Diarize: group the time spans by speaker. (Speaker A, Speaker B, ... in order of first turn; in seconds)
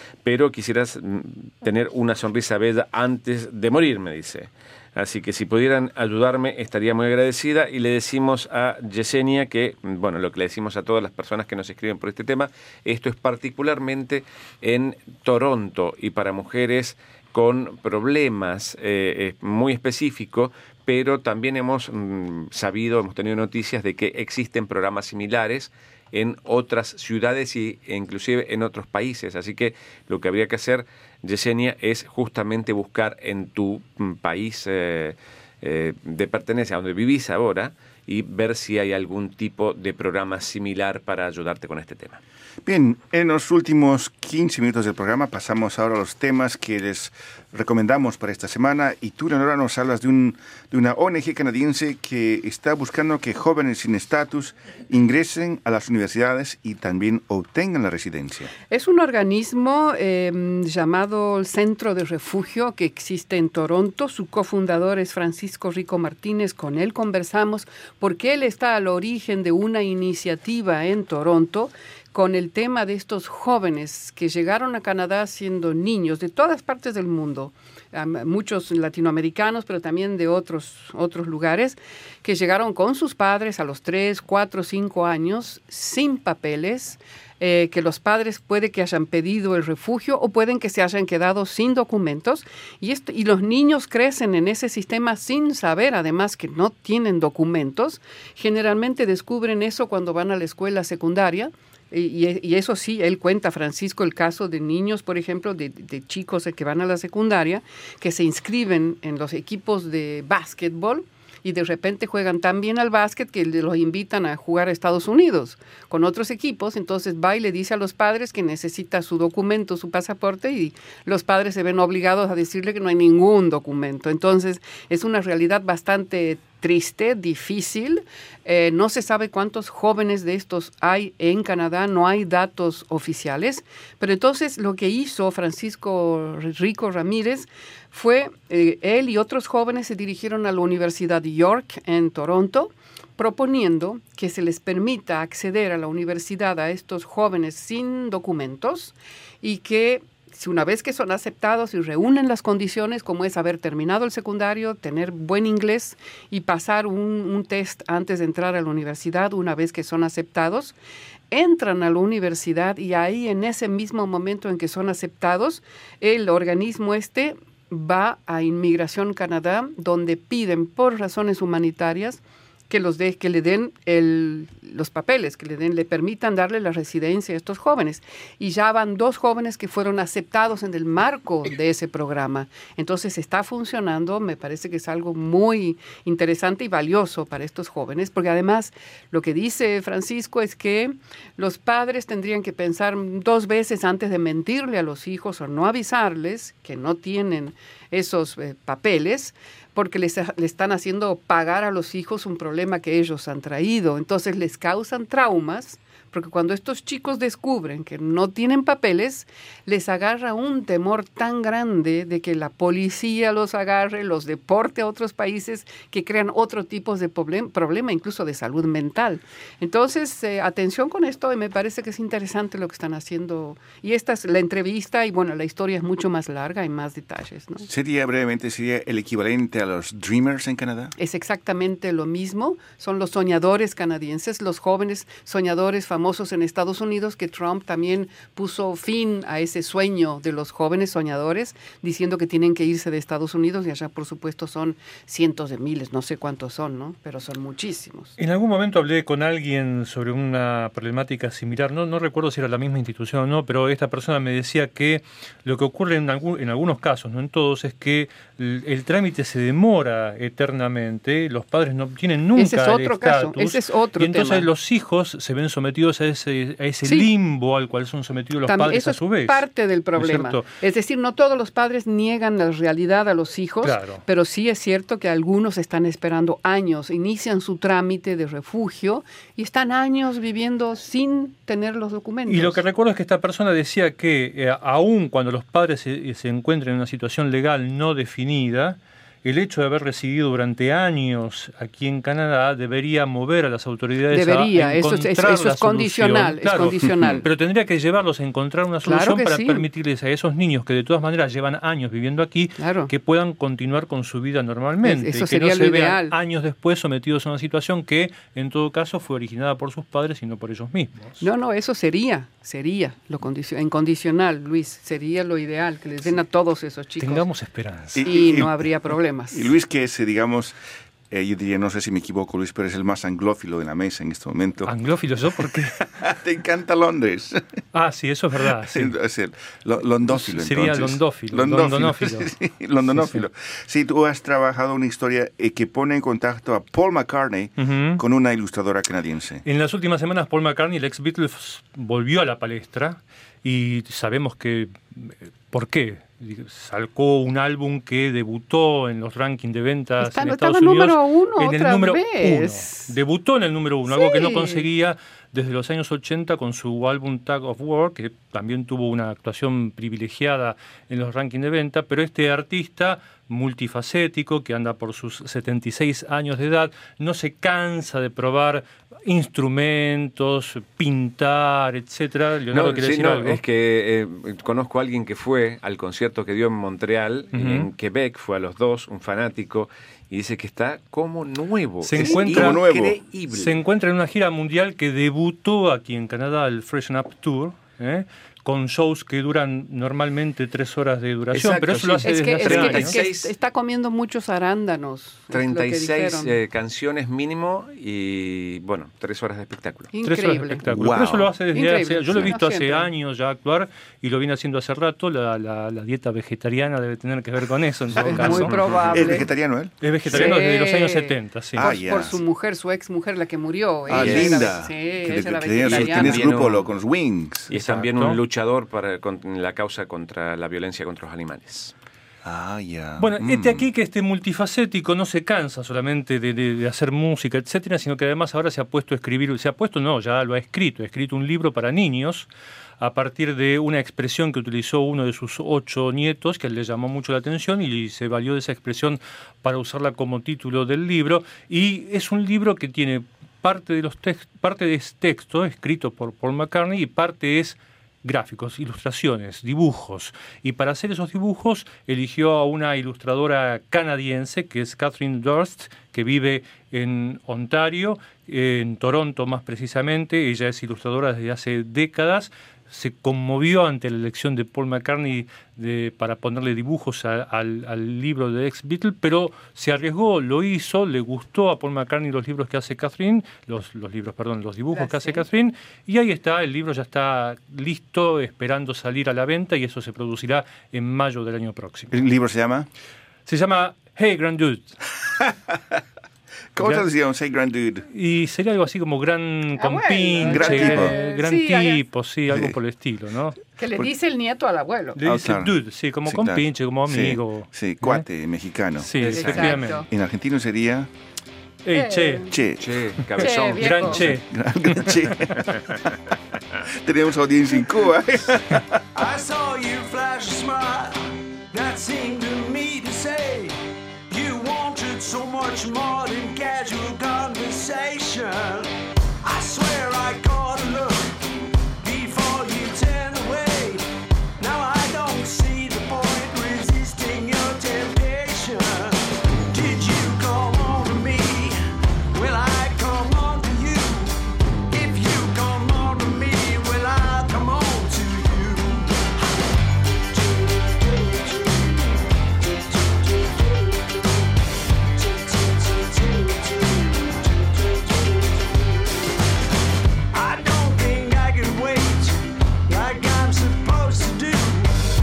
Speaker A: 0.2-42.2, 372.5-383.6, 392.4-393.3, 395.3-399.9, 413.9-414.5, 415.6-416.6, 417.5-421.7, 502.6-504.1
Speaker B: 42.6-58.5, 227.7-230.9, 317.9-318.7, 319.3-320.6, 321.1-324.7, 325.4-327.4, 328.5-339.4, 382.0-383.0, 400.7-401.4, 408.9-410.4, 411.6-412.2, 413.9-417.5, 422.2-423.7, 481.9-482.7, 485.1-485.8, 486.5-487.9, 490.2-490.9, 492.3-492.6, 495.0-500.9, 502.3-502.8, 504.2-505.7, 506.7-508.8
Speaker C: 58.7-160.8, 161.3-227.7, 231.0-248.2, 262.4-264.5, 268.5-282.6, 294.1-297.3, 298.8-299.7, 302.6-302.9, 304.8-306.1, 311.2-317.3, 318.0-319.5, 350.0-352.9, 353.9-354.7, 391.4-396.3, 399.9-400.6, 401.5-402.9, 408.0-409.3, 410.1-416.4, 474.7-475.3, 489.6-491.8, 493.6-495.0, 499.0-499.9, 501.7-502.4, 503.2-504.1
Speaker D: 248.2-269.4, 270.0-270.5, 273.6-274.0, 282.3-311.2, 317.0-318.1, 324.7-325.8, 327.7-328.9, 330.1-332.3, 332.8-333.2, 337.6-338.0, 339.4-373.4, 377.3-377.7, 381.8-382.6, 383.3-393.0, 400.0-409.1, 409.8-411.6, 417.5-418.2, 423.0-432.3, 432.8-482.0, 483.3-484.8, 486.6-486.9, 487.9-493.4, 495.0-498.1, 498.8-499.9, 501.6-502.3, 503.6-505.3
Speaker E: 508.9-513.6, 514.1-518.7, 519.2-521.2, 521.8-523.9, 524.4-534.2, 534.7-539.1, 540.5-541.4, 543.0-543.4, 545.3-548.1, 550.1-554.7